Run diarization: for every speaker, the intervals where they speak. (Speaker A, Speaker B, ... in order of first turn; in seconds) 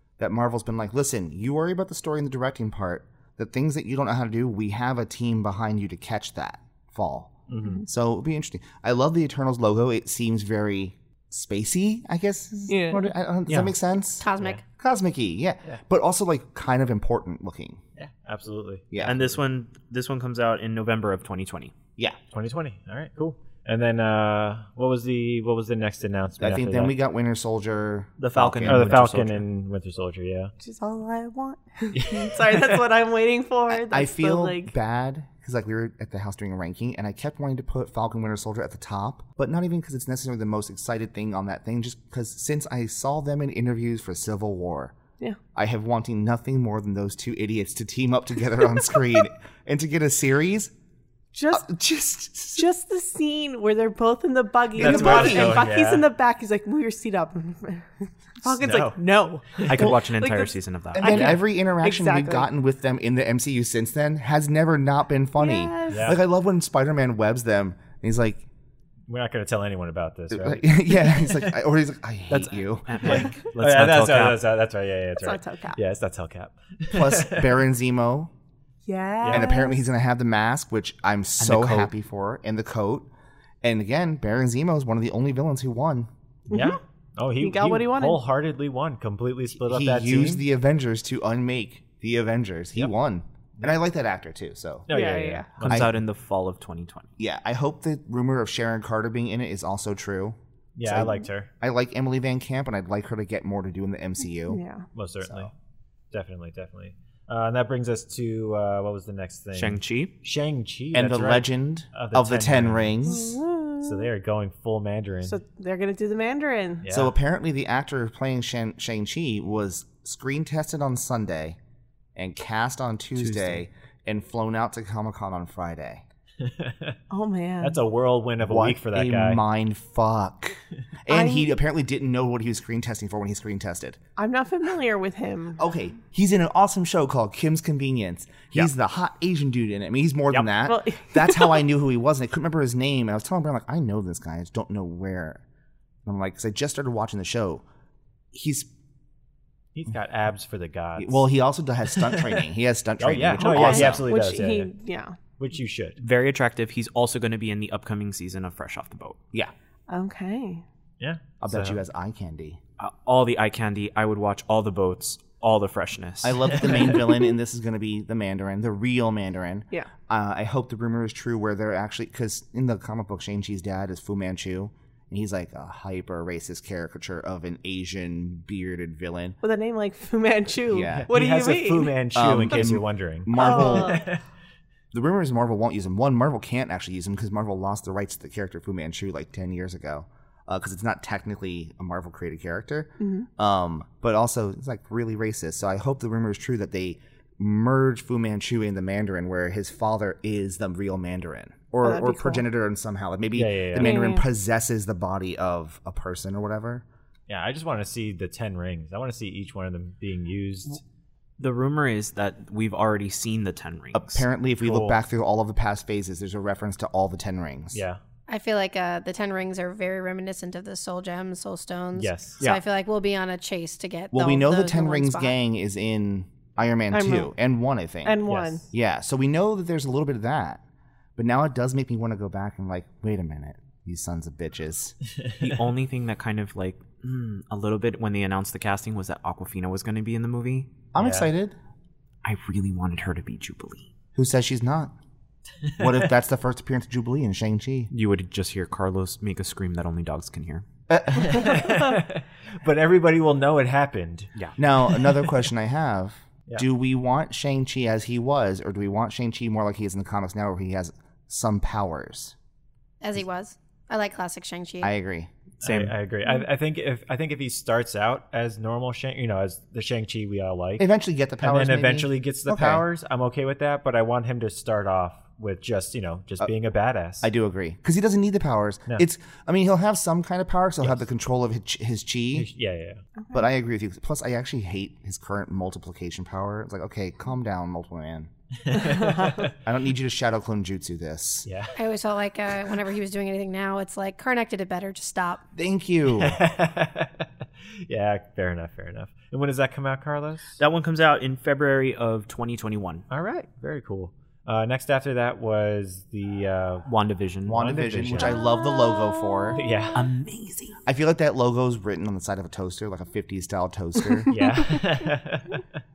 Speaker A: 0.2-17.8, 18.9-19.4, 26.4-29.0, 33.7-44.9, 45.5-50.7, 51.5-52.7, 54.8-55.7, 60.9-68.5, 70.3-73.3, 76.9-78.3, 79.3-83.1, 83.6-86.1, 89.6-94.9, 95.7-95.9, 97.2-104.6, 110.9-113.4, 116.9-121.6, 122.1-126.0, 128.4-134.0, 135.6-145.4, 146.1-147.6, 148.3-148.7, 151.0-154.1, 161.4-162.6, 166.2-179.4, 180.7-181.1, 182.1-184.0, 184.9-206.8, 213.9-217.8, 224.1-230.6, 231.2-234.9, 240.9-241.6, 244.1-244.9, 245.7-247.9, 250.9-251.7, 254.6-262.3, 264.8-265.3, 270.8-272.8, 277.2-282.5, 283.3-288.3, 289.6-291.5, 295.5-296.4, 307.5-309.7, 310.8-314.6
Speaker B: 7.5-7.9, 18.0-18.8, 22.3-26.9, 28.7-30.5, 31.9-32.8, 54.8-56.1, 58.5-59.0, 59.5-59.9, 65.9-66.2, 69.1-71.5, 73.0-77.5, 79.2-79.5, 86.5-90.4, 94.9-95.9, 100.8-101.5, 104.9-105.5, 106.1-113.1, 113.8-115.4, 116.8-117.1, 126.4-127.0, 127.6-129.4, 149.7-151.2, 151.9-152.4, 153.0-154.7, 155.4-156.0, 161.0-161.8, 166.6-167.0, 180.9-184.2, 203.3-204.0, 207.3-210.8, 214.6-215.0, 217.7-218.0, 221.9-222.4, 228.3-228.6, 241.0-241.3, 251.1-254.3, 265.6-270.8, 271.4-277.3, 282.3-283.0, 288.6-289.5, 291.4-291.8, 296.2-297.3, 297.9-300.6, 303.1-306.9, 307.5-308.4, 309.6-310.1, 314.3-315.6
Speaker C: 12.7-13.7, 19.0-21.7, 28.2-29.4, 59.7-61.3, 72.3-74.5, 81.4-81.9, 95.6-97.1, 109.5-110.1, 123.2-123.6, 156.0-159.2, 162.8-166.8, 211.4-214.2, 235.4-240.8, 242.2-243.9, 247.9-250.6, 265.6-265.9, 300.6-303.1, 306.9-307.6, 309.9-310.8
Speaker D: 14.2-14.6, 218.3-225.4, 263.0-264.9, 291.7-295.4
Speaker E: 30.6-34.7, 51.3-51.7, 52.6-62.5, 65.4-66.2, 75.2-75.8, 78.9-79.8, 86.5-86.8, 87.4-88.2, 94.9-95.5, 104.5-104.9, 113.0-114.1, 115.2-116.9, 127.1-127.8, 131.1-131.5, 134.2-135.6, 140.7-141.6, 153.4-155.2, 159.9-160.6, 179.4-182.6, 183.3-184.1, 193.0-193.3, 201.8-202.4, 203.8-204.2, 226.9-227.3, 228.0-228.6, 283.2-283.5, 288.9-289.4